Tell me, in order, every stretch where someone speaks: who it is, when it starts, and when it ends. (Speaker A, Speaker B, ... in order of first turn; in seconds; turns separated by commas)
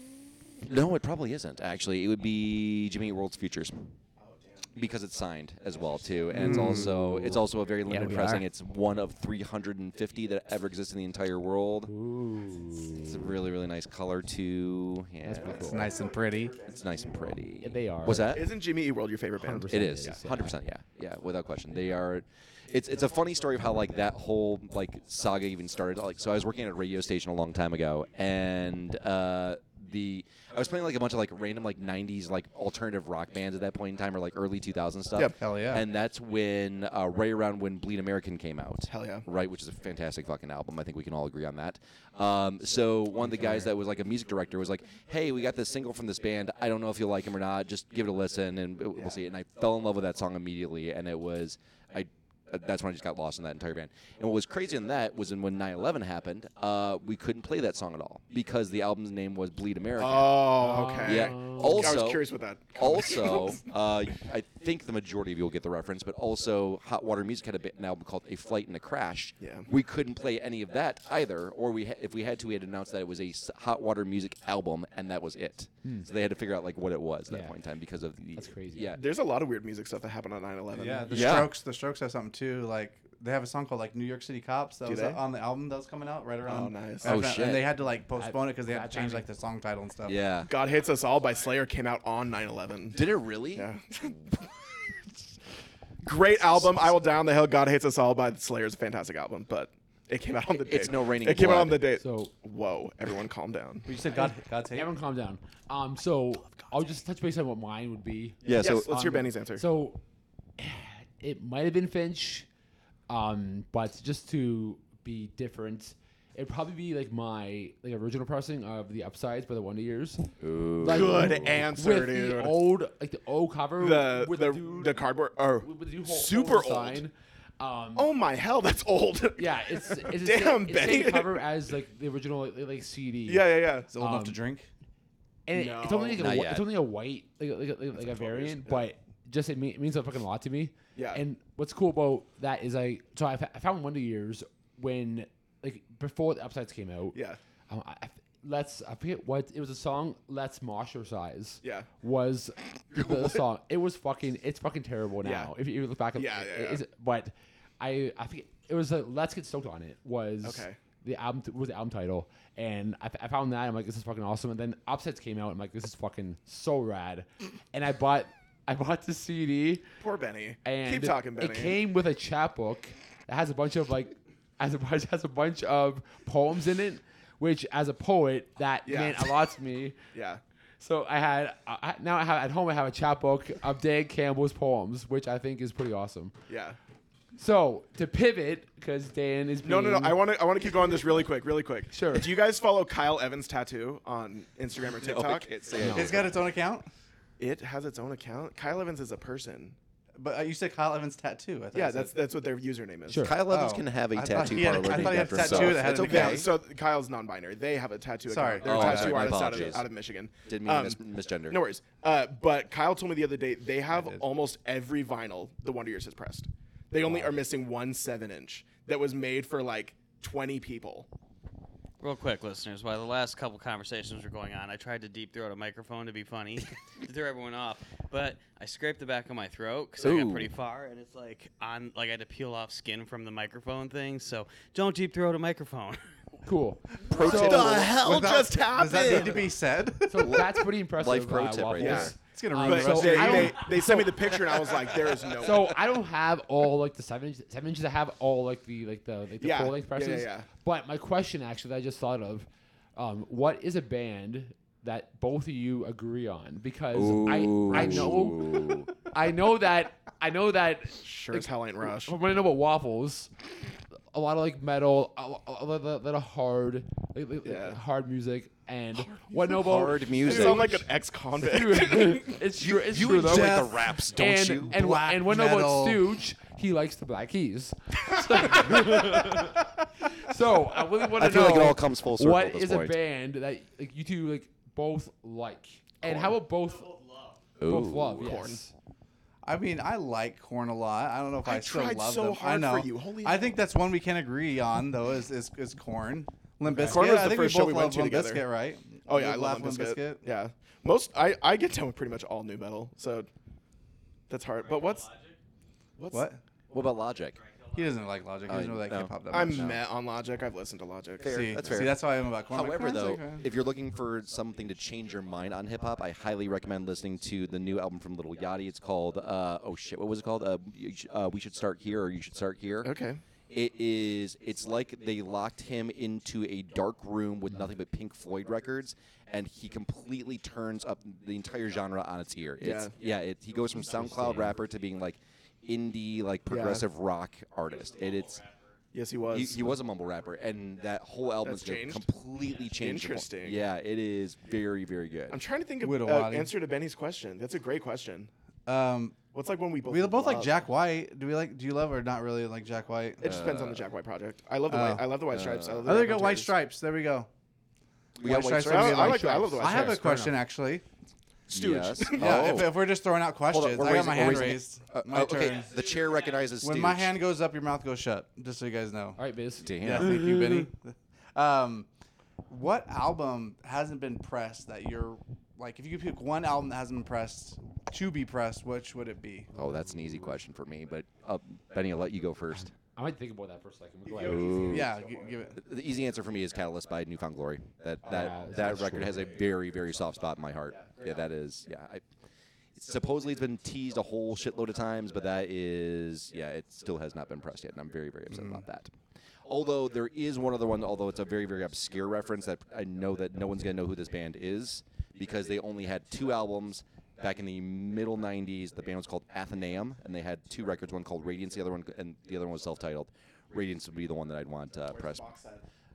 Speaker A: 0.6-3.9, Speaker B: 4.2-4.9, Speaker A: 4.7-11.9, Speaker B: 6.0-6.5, Speaker C: 6.3-7.1, Speaker D: 6.4-6.8, Speaker D: 7.8-8.5, Speaker D: 11.9-13.3, Speaker A: 13.0-15.8, Speaker D: 15.2-15.9, Speaker B: 15.3-17.5, Speaker C: 15.6-16.6, Speaker A: 16.6-18.5, Speaker D: 17.6-18.4, Speaker B: 18.2-19.8, Speaker D: 19.4-20.6, Speaker A: 19.7-79.0, Speaker C: 35.4-35.8, Speaker B: 38.9-39.3, Speaker B: 60.0-63.6, Speaker D: 60.6-62.0, Speaker B: 69.4-69.7, Speaker D: 75.8-76.1, Speaker D: 77.3-77.6, Speaker D: 78.3-79.0, Speaker B: 79.0-81.5, Speaker C: 80.7-90.2, Speaker A: 81.1-81.5, Speaker B: 84.8-85.2, Speaker B: 86.5-87.3, Speaker A: 87.0-87.7, Speaker D: 88.1-89.3, Speaker A: 90.1-90.5, Speaker B: 90.5-94.4, Speaker E: 90.6-91.5, Speaker A: 92.9-94.2, Speaker B: 96.0-103.9, Speaker A: 96.5-96.9, Speaker A: 100.6-101.8, Speaker D: 102.0-102.3, Speaker C: 103.9-104.9, Speaker D: 104.2-110.0, Speaker B: 106.5-106.9, Speaker A: 108.4-108.9, Speaker B: 108.6-109.7, Speaker D: 110.6-112.5, Speaker D: 113.1-120.3, Speaker A: 120.4-121.6, Speaker D: 120.8-125.0, Speaker B: 120.9-122.7, Speaker B: 123.8-127.0, Speaker D: 125.6-128.1, Speaker B: 128.0-131.5, Speaker D: 129.4-134.4, Speaker B: 133.3-133.9, Speaker C: 133.9-134.7, Speaker D: 135.5-147.2, Speaker B: 135.5-136.3, Speaker A: 136.2-136.7, Speaker B: 138.0-138.9, Speaker B: 141.0-141.2, Speaker D: 147.7-169.9, Speaker B: 151.6-151.9, Speaker B: 155.2-155.5, Speaker B: 156.1-156.8, Speaker B: 160.4-160.8, Speaker B: 170.0-171.8, Speaker D: 170.6-180.0, Speaker B: 178.9-179.3, Speaker B: 180.1-180.4, Speaker D: 180.8-186.3, Speaker B: 186.5-186.8, Speaker D: 187.4-190.2, Speaker B: 189.6-195.6, Speaker D: 191.9-192.3, Speaker A: 195.0-196.3, Speaker D: 195.8-196.2, Speaker C: 195.9-196.9, Speaker B: 197.4-199.8, Speaker C: 200.2-202.2, Speaker B: 201.7-203.3, Speaker D: 203.1-203.4, Speaker A: 203.2-206.5, Speaker C: 203.5-206.5, Speaker B: 204.7-221.1, Speaker C: 208.3-209.4, Speaker A: 208.6-209.9, Speaker A: 210.4-211.6, Speaker C: 213.9-214.2, Speaker E: 222.0-236.0, Speaker A: 230.0-230.5, Speaker D: 236.4-237.9, Speaker A: 237.1-238.0, Speaker B: 237.1-239.5, Speaker C: 238.0-240.5, Speaker D: 240.1-263.3, Speaker A: 240.2-242.2, Speaker B: 241.8-245.9, Speaker C: 242.3-243.7, Speaker B: 249.4-250.5, Speaker A: 256.9-258.9, Speaker B: 261.0-262.2, Speaker D: 264.1-286.9, Speaker B: 267.4-267.8, Speaker B: 269.0-269.7, Speaker A: 269.6-270.8, Speaker B: 270.2-272.4, Speaker A: 272.6-274.8, Speaker C: 273.2-273.9, Speaker C: 274.6-276.0, Speaker A: 281.2-283.0, Speaker A: 286.0-286.4, Speaker E: 286.7-287.4, Speaker A: 287.6-288.4, Speaker D: 287.6-288.7, Speaker B: 288.2-288.6, Speaker C: 289.4-300.2, Speaker B: 291.4-293.6, Speaker D: 296.7-297.0, Speaker B: 296.8-298.5, Speaker B: 299.1-303.3, Speaker B: 304.3-305.1, Speaker E: 304.6-305.4, Speaker B: 306.0-306.3, Speaker C: 306.1-306.4, Speaker A: 306.7-307.4, Speaker E: 307.4-308.2, Speaker C: 307.8-309.8, Speaker A: 308.5-309.8, Speaker B: 309.3-311.7, Speaker A: 311.2-322.9, Speaker C: 311.2-313.5, Speaker B: 322.8-323.2, Speaker A: 323.5-338.4, Speaker B: 332.6-332.9, Speaker D: 333.9-334.5, Speaker B: 336.5-336.9, Speaker E: 337.7-338.8, Speaker B: 338.9-339.8, Speaker A: 339.3-345.4, Speaker B: 341.4-342.1, Speaker B: 342.8-343.7, Speaker B: 345.3-348.3, Speaker C: 345.8-346.5, Speaker C: 348.7-349.2, Speaker B: 349.3-350.7, Speaker C: 349.9-353.4, Speaker B: 353.2-356.6, Speaker A: 353.2-353.9, Speaker C: 354.7-355.1, Speaker A: 355.3-355.9, Speaker C: 355.8-357.3, Speaker A: 358.2-359.5, Speaker C: 358.2-360.8, Speaker B: 358.6-360.1, Speaker D: 359.5-360.4, Speaker A: 361.5-362.8, Speaker B: 361.5-362.6, Speaker C: 362.1-365.7, Speaker A: 363.5-367.2, Speaker E: 365.4-366.3, Speaker C: 366.6-369.2, Speaker D: 369.2-370.7, Speaker A: 369.6-370.2, Speaker C: 369.8-371.9, Speaker C: 372.5-379.5, Speaker A: 379.6-382.7, Speaker D: 382.9-384.7, Speaker B: 384.1-385.6, Speaker A: 384.2-384.9, Speaker C: 384.7-385.6, Speaker A: 385.6-392.0, Speaker B: 388.1-389.2, Speaker D: 388.1-389.4, Speaker A: 392.8-398.9, Speaker C: 398.3-398.6, Speaker A: 399.4-415.3, Speaker B: 414.9-415.6